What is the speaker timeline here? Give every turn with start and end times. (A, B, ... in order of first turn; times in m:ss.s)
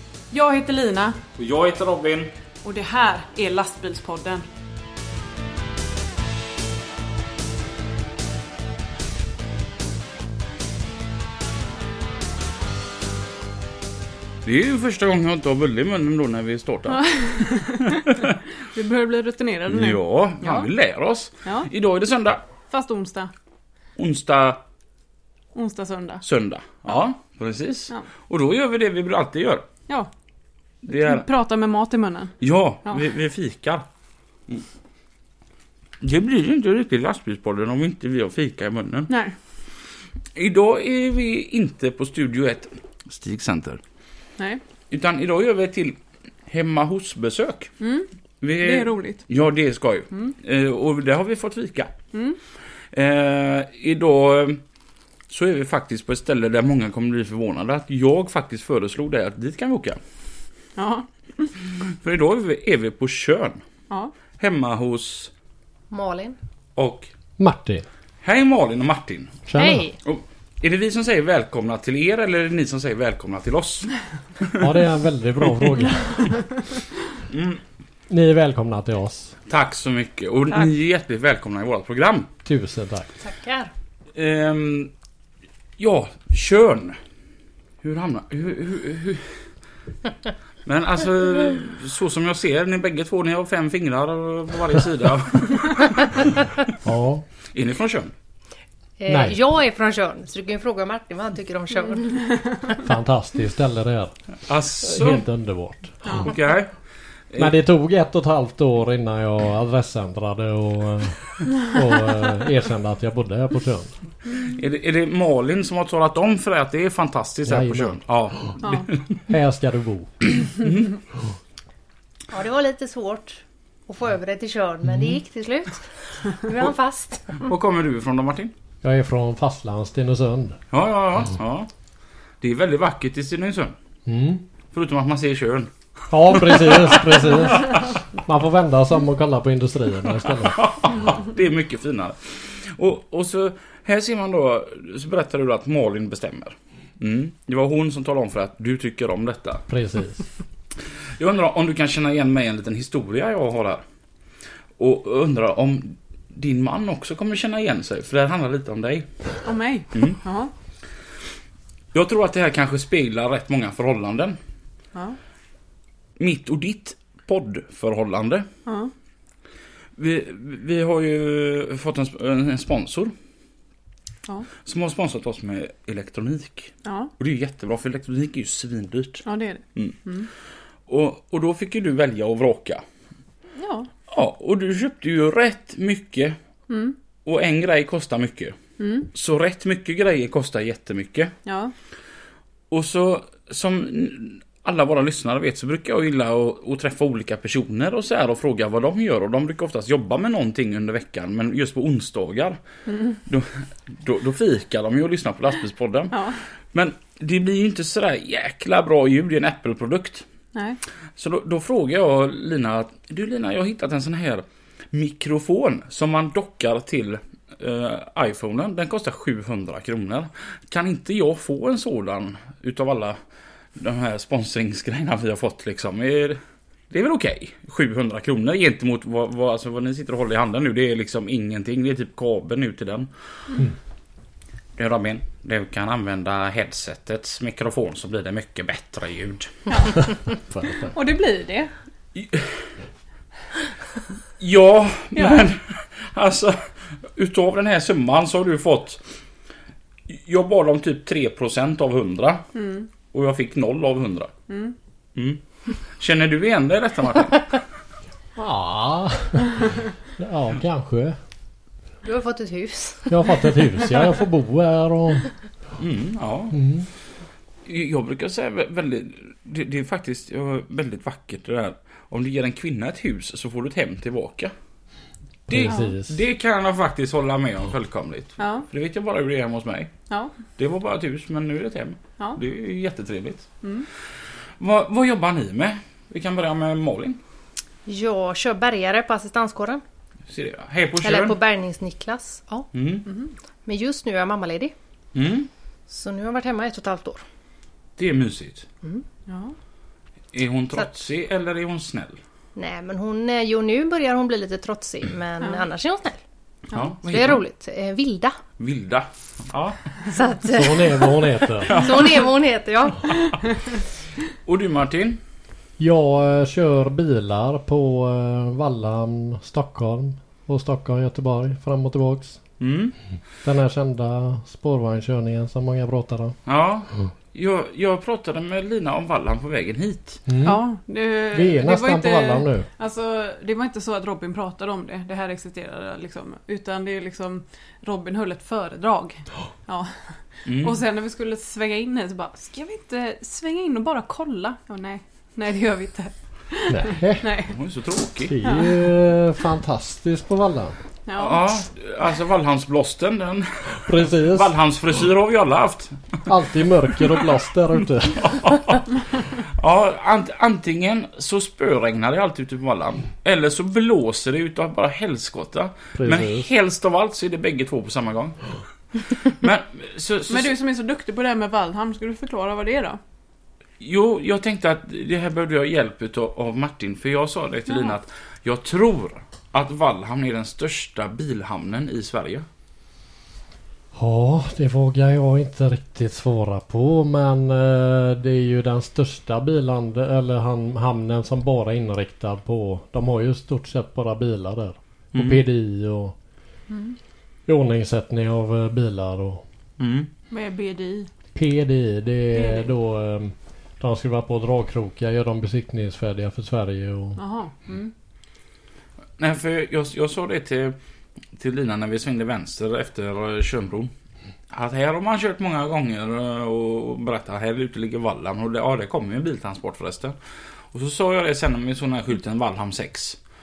0:00.3-0:01.2 A
0:01.4-0:02.3 B
0:02.6-0:04.4 A
0:14.4-0:18.3 B
0:16.9-0:20.7 A
0:19.7-0:22.4 B
0:22.7-0:23.3 A
0:24.0-0:24.6 B
0:25.5-0:26.2 A
0:26.2-0:29.7 B
0:30.8-0:31.2 B
0:30.9-0:32.3 A
0:32.4-0:33.8 B
0:36.0-0:39.1 B
0:39.1-0:39.4 A
0:40.3-0:43.8 B
0:44.9-0:47.7 B
0:47.8-0:49.2 A
0:48.4-0:51.9 B
0:52.1-0:52.4 A
0:52.9-0:54.6 B
0:55.3-1:00.0 B
1:00.8-1:01.5 A
1:01.8-1:03.6 B
1:04.4-1:05.3 B
1:05.9-1:06.4 C
1:06.8-1:07.1 B
1:07.4-1:07.8 D
1:08.2-1:09.4 B
1:09.5-1:09.8 D
1:09.5-1:10.0 C
1:10.0-1:14.7 B
1:14.6-1:16.3 D
1:17.3-1:17.6 B
1:18.1-1:19.3 D
1:19.5-1:22.3 B
1:22.4-1:23.1 D
1:23.2-1:23.7 C
1:24.1-1:24.9 B
1:25.8-1:27.0 B
1:27.8-1:29.4 B
1:30.6-1:36.2 B
1:36.8-1:37.2 D
1:37.5-1:38.1 B
1:39.0-1:42.7 C
1:39.1-1:39.4 D
1:42.8-1:44.1 D
1:44.4-1:45.2 B
1:44.8-1:46.2 D
1:46.0-1:46.7 B
1:47.4-1:53.9 D
1:54.3-1:59.2 B
1:57.5-1:58.0 D
1:58.6-1:58.9 A
1:59.3-2:00.3 D
2:00.6-2:00.9 B
2:02.3-2:07.4 C
2:04.8-2:05.2 D
2:07.4-2:08.5 B
2:08.8-2:10.6 D
2:10.7-2:11.7 B
2:12.4-2:13.7 B
2:14.0-2:14.4 D
2:14.7-2:15.7 B
2:16.1-2:20.6 D
2:16.3-2:17.5 B
2:20.4-2:29.6 B
2:29.7-2:30.2 D
2:31.2-2:33.8 B
2:34.8-2:39.1 B
2:39.4-2:40.5 A
2:41.9-2:44.4 B
2:46.2-2:48.5 B
2:48.6-2:48.9 A
2:50.0-2:53.1 B
2:54.6-3:00.0 B
2:56.8-2:57.1 A
2:59.2-3:00.3 A
3:00.9-3:02.8 B
3:03.6-3:03.9 A
3:04.1-3:06.4 B
3:06.7-3:07.0 A
3:07.2-3:08.6 B
3:08.8-3:09.1 A
3:09.1-3:11.3 B
3:11.4-3:11.7 A
3:12.7-3:22.6 B
3:22.9-3:23.2 A
3:23.2-3:30.2 B
3:26.1-3:26.4 A
3:31.2-3:43.2 B
3:43.8-3:46.4 B
3:46.9-3:53.1 B
3:54.8-3:59.6 B
3:59.7-4:00.0 A
4:00.5-4:00.9 D
4:00.9-4:01.7 A
4:02.1-4:02.6 B
4:04.4-4:09.0 B
4:05.1-4:05.4 A
4:10.1-4:12.5 B
4:12.5-4:12.9 A
4:13.1-4:14.3 B
4:14.5-4:14.7 A
4:16.0-4:17.6 B
4:18.4-4:21.2 D
4:22.0-4:23.9 C
4:23.1-4:25.3 D
4:25.8-4:26.6 B
4:26.5-4:26.9 D
4:27.6-4:34.5 B
4:35.5-4:36.1 D
4:35.5-4:39.9 B
4:35.6-4:35.9 A
4:38.4-4:38.7 A
4:40.6-4:43.5 B
4:44.6-4:47.2 B
4:47.8-4:49.8 C
4:50.3-4:51.4 B
4:51.0-4:52.7 C
4:52.7-4:53.0 B
4:53.0-4:53.3 A
4:53.6-4:54.7 C
4:55.1-4:55.5 B
4:55.9-4:57.2 C
4:58.0-4:58.6 B
4:59.3-4:59.5 A
5:00.3-5:02.2 B
5:02.5-5:06.2 C
5:06.7-5:07.4 B
5:07.0-5:08.4 C
5:08.6-5:09.8 B
5:10.1-5:13.5 C
5:10.5-5:11.8 D
5:11.7-5:12.2 B
5:14.4-5:15.2 B
5:15.8-5:22.4 D
5:22.6-5:22.9 B
5:23.4-5:26.4 D
5:26.4-5:30.2 B
5:30.3-5:30.6 D
5:30.4-5:39.9 A
5:31.3-5:32.6 D
5:40.4-5:40.8 B
5:40.4-5:47.6 A
5:46.7-5:47.4 D
5:47.5-5:48.3 B
5:48.2-5:50.8 D
5:48.4-5:48.7 A
5:51.0-5:51.5 A
5:51.2-5:56.2 B
5:53.8-5:54.5 D
5:56.3-5:58.7 D
5:58.2-5:58.8 B
5:59.4-6:08.4 B
6:05.9-6:06.5 D
6:09.0-6:10.5 B
6:10.3-6:13.0 A
6:13.8-6:22.4 B
6:23.9-6:36.2 D
6:35.1-6:35.4 B
6:36.7-6:37.0 A
6:37.5-6:39.4 D
6:39.8-6:40.1 B
6:40.3-6:41.1 A
6:41.3-6:47.2 D
6:42.3-6:42.7 A
6:47.2-6:47.9 A
6:49.2-6:50.8 B
6:51.3-6:53.9 B
6:54.5-7:00.2 B
7:00.7-7:03.2 B